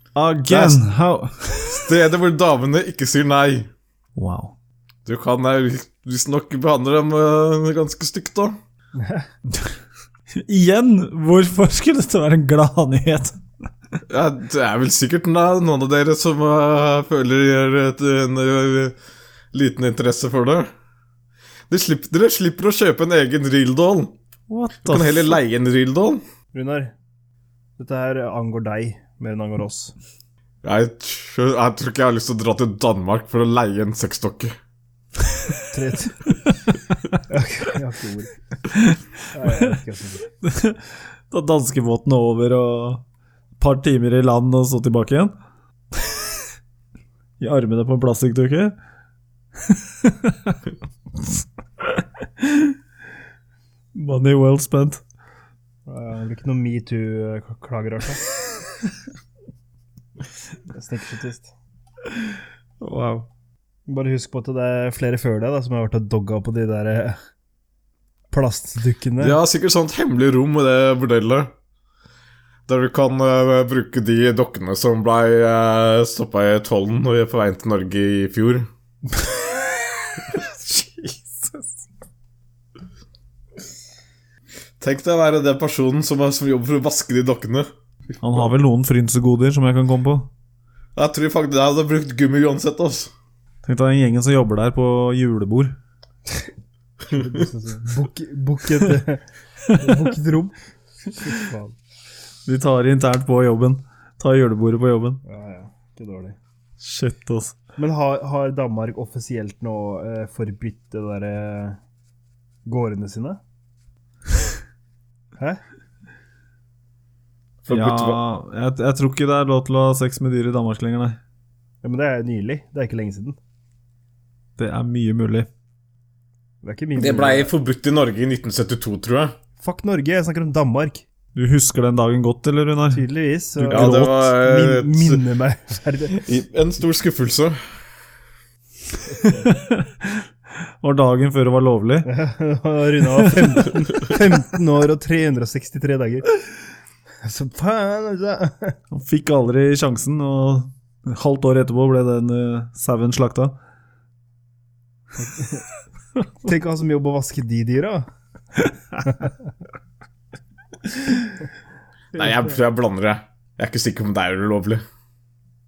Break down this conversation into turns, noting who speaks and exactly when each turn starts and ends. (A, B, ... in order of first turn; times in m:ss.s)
0:00.2-0:01.9 A
0:00.5-0:00.8 B
0:01.7-0:03.7 B
0:04.2-0:04.6 A
0:05.1-0:08.6 B
0:09.0-0:09.3 C
0:10.3-0:13.4 A
0:14.1-0:19.0 B
0:19.5-0:20.7 B
0:21.7-0:24.1 B
0:24.5-0:25.4 A
0:24.8-0:26.2 B
0:26.5-0:26.9 C
0:27.8-0:29.9 C
0:30.6-0:34.5 B
0:35.7-0:36.3 C
0:36.3-0:37.2 A
0:37.3-0:38.4 C
0:38.7-0:39.8 A
0:39.3-0:40.3 C
0:40.4-0:43.0 A
0:43.6-0:45.4 A
0:46.0-0:46.2 A
0:47.4-0:48.8 A
0:49.6-0:50.6 A
0:51.8-0:52.8 A
0:54.0-0:55.0 A
0:55.9-0:58.2 C
1:00.7-1:01.5 C
1:02.8-1:03.3 A
1:03.9-1:07.2 C
1:08.3-1:09.4 C
1:09.2-1:11.5 B
1:12.7-1:18.7 B
1:20.3-1:21.7 A
1:24.8-1:27.7 B
1:28.2-1:30.3 A
1:31.0-1:33.1 B
1:33.6-1:35.8 A
1:37.1-1:40.6 C
1:39.6-1:40.0 A
1:41.1-1:41.8 C
1:42.5-1:45.2 A
1:45.2-1:46.4 C
1:46.8-1:47.6 A
1:47.8-1:51.8 C
1:52.7-1:53.4 C
1:57.6-1:58.2 B
1:57.7-2:01.2 A
2:01.8-2:03.4 C
2:04.6-2:05.5 A
2:06.6-2:07.5 C
2:07.0-2:09.3 B
2:09.6-2:11.1 C
2:11.3-2:13.0 A
2:12.9-2:16.1 C
2:13.6-2:14.3 A
2:13.7-2:15.2 B
2:16.1-2:17.6 B
2:19.2-2:20.2 A
2:20.8-2:22.1 A
2:22.0-2:26.4 C
2:23.2-2:23.6 A
2:27.2-2:28.8 C
2:28.9-2:33.6 A
2:35.2-2:35.6 C
2:36.4-2:38.1 C
2:42.1-2:44.8 B